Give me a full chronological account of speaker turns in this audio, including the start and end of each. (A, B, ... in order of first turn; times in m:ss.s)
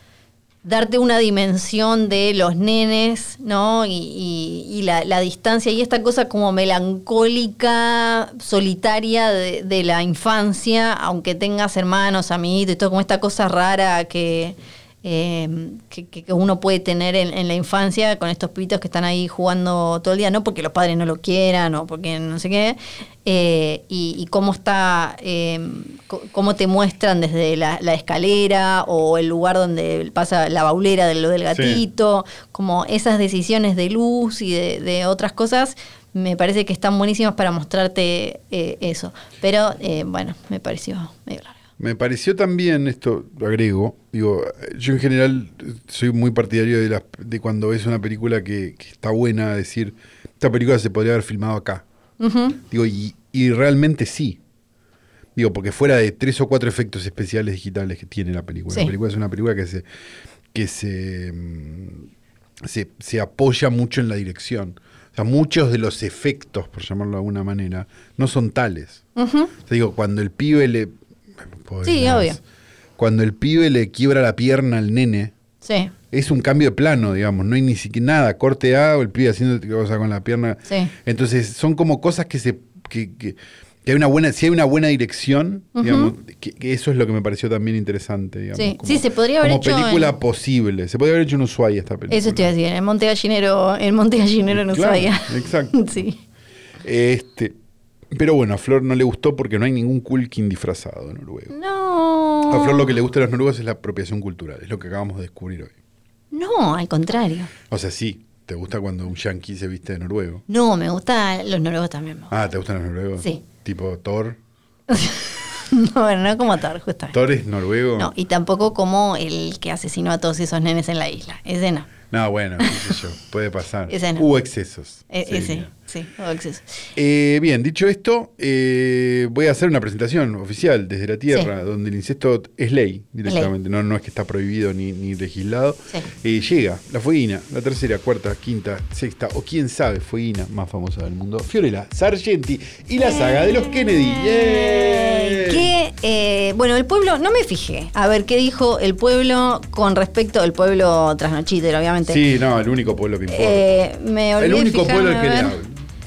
0:00.6-0:41.6 A
0:31.5-0:31.8 B
0:41.8-0:51.8 B
0:52.2-0:52.6 A
0:52.6-0:54.4 B
0:55.4-0:59.8 B
1:00.5-1:02.1 B
1:02.6-1:09.0 B
1:09.2-1:09.5 A
1:09.6-1:10.9 B
1:11.6-1:12.4 B
1:11.8-1:12.4 A
1:13.0-1:15.3 B
1:15.6-1:15.9 A
1:16.1-1:32.5 B
1:25.8-1:26.1 A
1:28.5-1:30.1 A
1:32.1-1:36.2 A
1:34.5-1:35.8 B
1:36.8-1:37.6 B
1:38.1-1:41.5 B
1:41.5-1:42.9 A
1:42.5-1:45.7 B
1:46.3-1:47.5 A
1:47.7-1:50.4 B
1:50.5-1:52.3 A
1:52.3-1:54.4 B
1:54.9-1:57.2 A
1:57.1-1:58.1 B
1:58.0-2:01.9 A
2:02.1-2:05.7 B
2:02.6-2:03.0 A
2:03.9-2:04.2 A
2:05.1-2:06.7 A
2:07.0-2:25.7 B
2:13.2-2:13.5 A
2:23.0-2:32.2 A
2:32.1-2:33.7 B
2:33.3-2:35.6 A
2:34.4-2:35.8 B